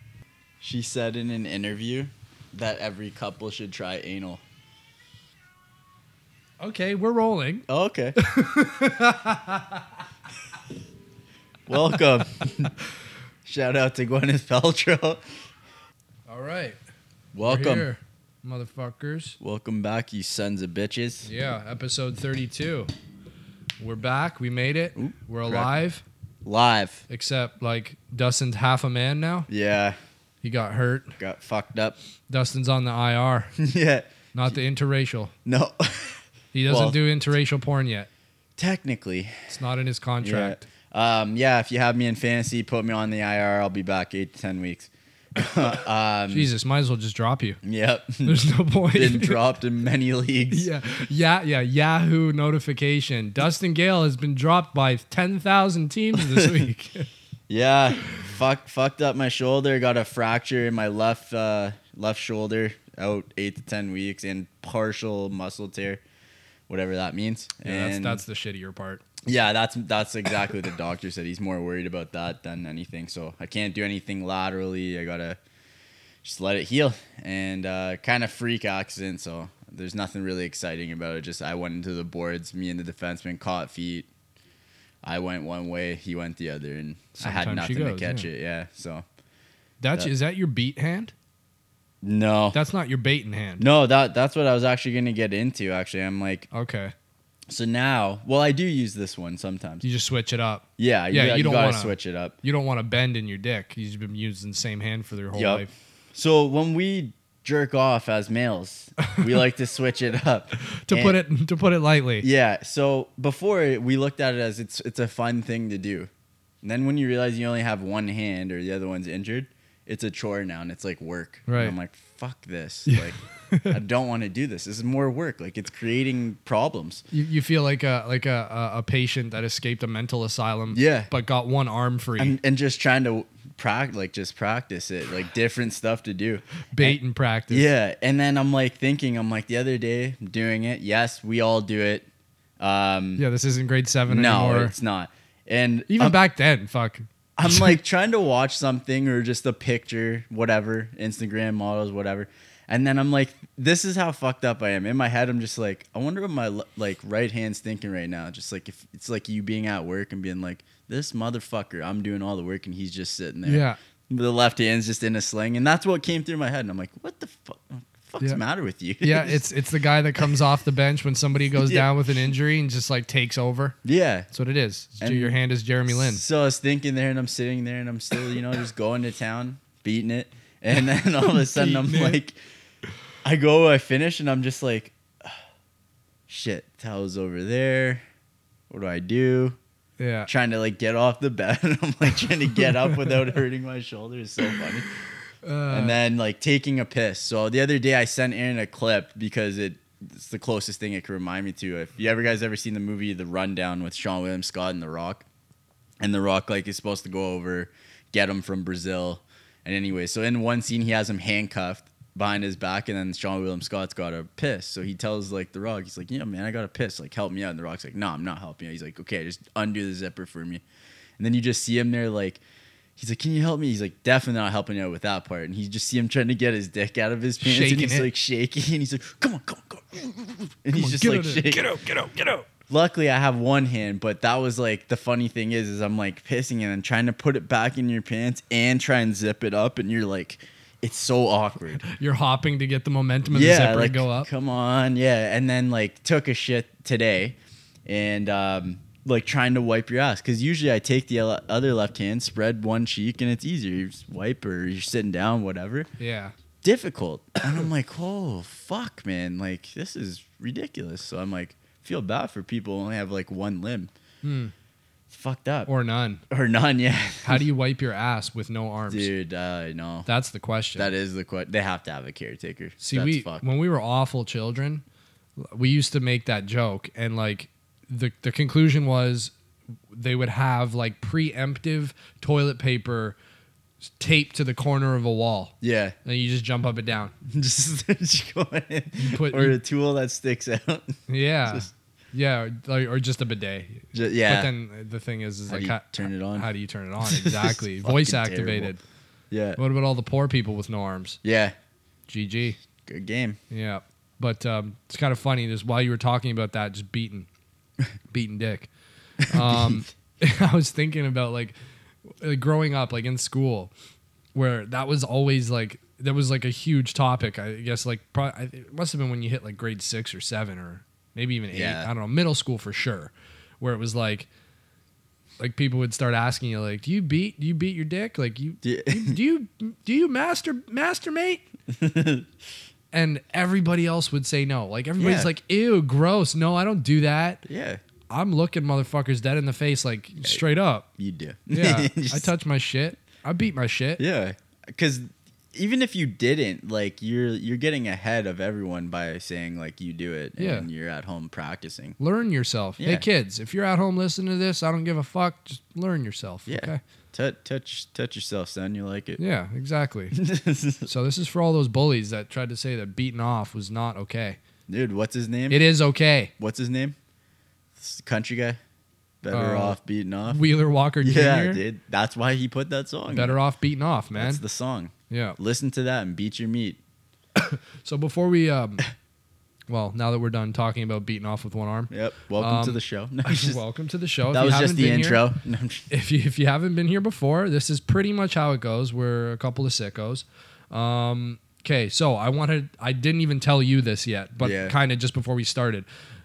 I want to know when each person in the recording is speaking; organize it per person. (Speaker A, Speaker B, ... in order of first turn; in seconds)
Speaker A: 0.6-4.4, 7.7-8.2, 11.7-12.7, 13.4-15.2, 17.3-17.9, 19.4-21.3, 25.0-25.7, 26.4-27.0, 29.5-30.0, 31.2-32.0, 33.6-34.6, 35.5-37.0, 38.6-39.5, 40.2-46.5, 47.6-48.4, 48.9-50.7, 56.3-56.6, 57.5-66.0, 66.7-68.2, 69.3-75.4, 76.2-84.1, 85.0-89.0, 92.0-92.6, 93.6-96.5, 97.5-99.8, 100.8-102.4, 105.3-111.2, 112.2-116.1, 116.6-127.0, 130.7-131.1, 132.2-137.0, 137.5-142.1, 142.6-143.2, 144.1-146.2, 147.4-169.4, 171.6-171.9, 173.8-174.3, 175.0-175.4, 175.9-182.4, 183.2-185.4, 186.3-188.0, 188.7-189.6, 190.3-195.0, 195.7-205.3, 206.0-220.6, 221.2-222.4, 223.0-231.7, 232.7-241.8, 243.3-255.9, 256.6-263.9, 265.1-265.7, 266.3-267.4, 268.9-270.1, 270.8-273.5, 285.6-286.0, 287.2-291.7, 293.9-294.5, 295.5-296.5, 297.0-298.8, 299.3-299.6, 301.2-301.6, 302.9-303.4, 309.2-309.8, 321.5-321.9, 328.6-329.2, 331.7-332.3, 335.0-335.3, 337.5-337.8, 341.0-342.3, 344.0-352.0, 352.8-353.1, 356.5-359.2, 360.1-360.9, 364.7-365.6, 366.4-367.0, 367.8-368.6, 369.2-370.4, 371.0-373.4, 374.1-376.8, 381.9-383.6, 384.3-385.9, 394.4-394.8
Speaker B: 6.6-7.7, 8.2-10.0, 16.3-16.8, 17.5-19.4, 21.2-22.9, 23.8-26.0, 27.1-29.5, 30.4-31.2, 32.3-33.5, 34.3-35.3, 36.5-38.1, 39.5-40.7, 46.3-47.6, 48.2-49.4, 50.5-57.1, 67.7-69.2, 87.2-88.3, 89.8-91.1, 92.5-93.7, 96.5-96.9, 99.8-105.7, 110.8-112.3, 121.5-121.8, 122.9-123.8, 127.1-132.4, 136.7-137.7, 143.2-144.8, 145.9-147.8, 163.4-163.8, 169.0-173.8, 174.3-176.2, 181.3-182.2, 190.0-190.3, 192.6-193.2, 195.4-196.0, 227.4-228.1, 230.7-232.5, 241.7-244.3, 256.0-256.3, 264.2-264.5, 265.7-266.2, 267.2-269.1, 270.1-270.9, 272.8-274.8, 275.4-279.3, 279.9-283.2, 284.0-287.1, 289.0-289.6, 291.1-298.8, 299.6-301.2, 302.1-302.6, 303.5-307.3, 308.1-308.7, 309.3-311.6, 312.1-313.7, 314.3-324.3, 325.4-331.4, 332.9-337.4, 338.1-340.9, 341.5-344.0, 350.4-350.7, 352.0-356.8, 359.2-360.2, 360.9-364.4, 365.5-366.3, 369.3-371.6, 373.1-374.4, 375.1-375.4, 377.4-378.8, 379.7-385.2, 385.9-395.9